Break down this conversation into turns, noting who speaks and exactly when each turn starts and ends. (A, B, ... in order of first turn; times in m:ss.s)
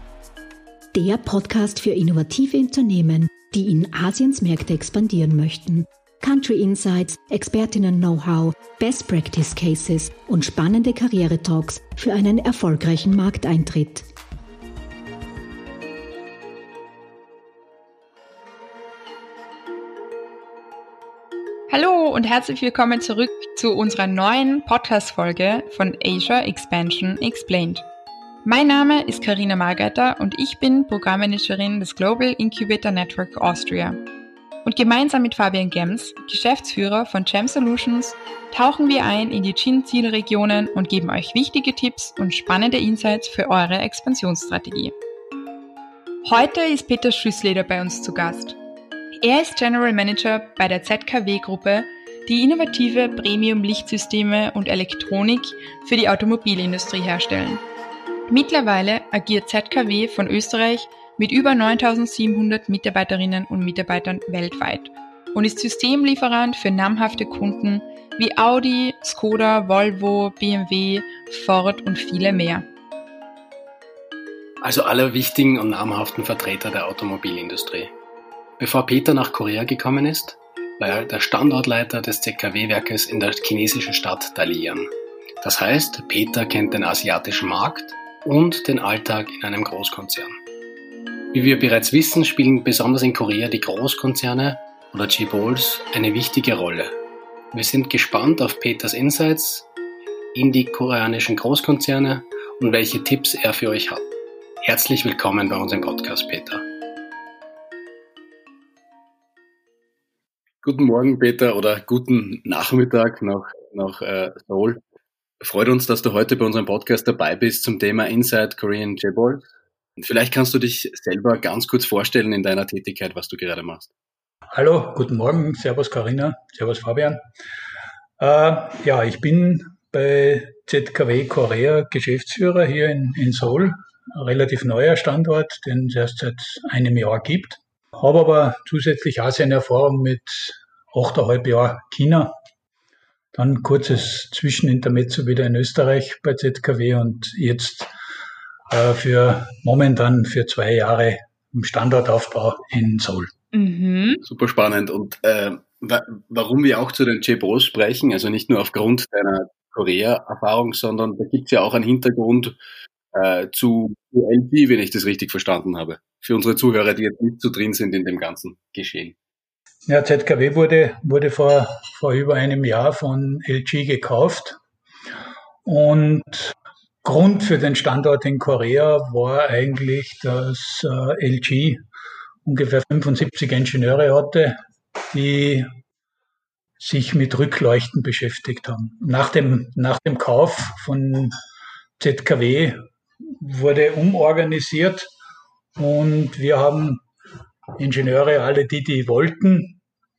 0:00.9-0:14.1 A
0:21.7-0:27.8 B
0:28.4-0:34.0 B
0:34.6-0:45.0 B
0:46.2-0:48.6 B
0:49.2-0:57.6 B
0:58.3-1:12.7 B
1:14.6-1:17.9 C
1:18.6-1:24.9 C
1:25.4-1:30.4 C
1:31.3-1:37.0 C
1:37.5-1:39.7 C
1:40.3-1:44.1 C
1:44.6-1:46.6 C
1:50.6-1:54.8 D
1:55.4-2:03.9 D
2:04.5-2:07.2 E
2:08.2-2:22.3 E
2:23.3-2:27.9 E
2:28.7-2:33.3 E
2:33.5-2:34.2 B
2:34.2-2:42.6 D
2:43.1-2:49.2 D
2:49.9-2:54.6 E
2:55.6-3:01.8 E
3:02.4-3:04.6 E
3:05.1-3:05.7 E
3:06.8-3:11.4 E
3:12.0-3:15.1 E
3:15.8-3:17.0 E
3:17.8-3:19.8 E